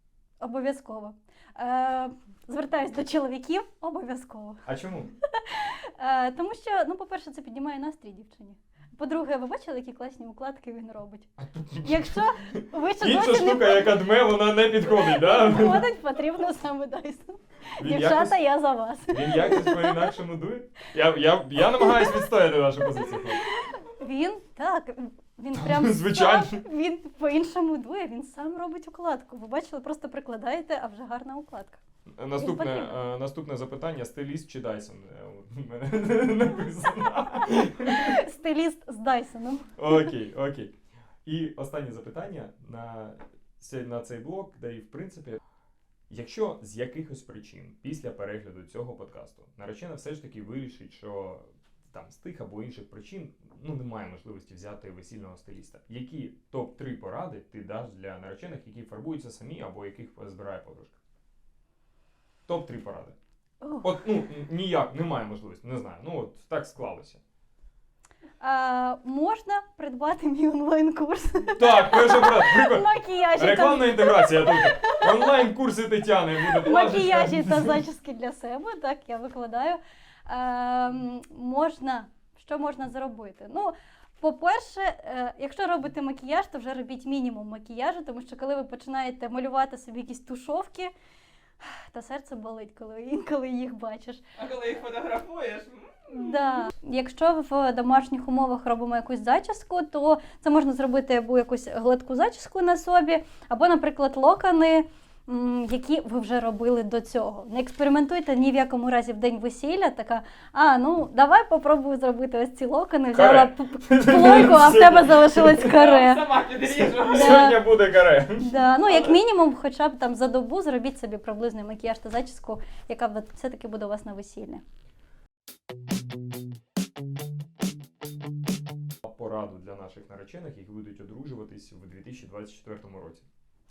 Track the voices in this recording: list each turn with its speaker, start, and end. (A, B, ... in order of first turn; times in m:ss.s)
0:00.4-0:04.6 A
0:04.6-0:05.1 B
0:05.2-0:11.3 A
0:11.4-0:15.9 B
0:11.8-0:14.0 A
0:14.8-0:20.2 A
0:17.8-0:18.4 B
0:19.1-0:23.4 B
0:21.7-0:22.3 A
0:23.5-0:31.8 A
0:25.5-0:26.6 B
0:32.2-0:38.2 B
0:32.4-0:33.0 A
0:37.5-0:40.1 A
0:39.8-0:40.7 B
0:41.2-0:45.4 B
0:46.1-1:01.0 B
1:02.5-1:03.2 B
1:03.6-1:03.9 A
1:03.8-1:07.2 B
1:08.4-1:15.5 A
1:11.6-1:17.8 B
1:16.4-1:30.9 A
1:31.6-1:34.2 A
1:34.4-1:36.5 C
1:36.1-1:56.4 A
1:53.1-1:55.8 B
1:55.6-1:57.6 C
1:56.6-1:58.5 B
1:57.0-1:57.7 A
1:58.4-2:04.6 A
2:09.0-2:13.3 B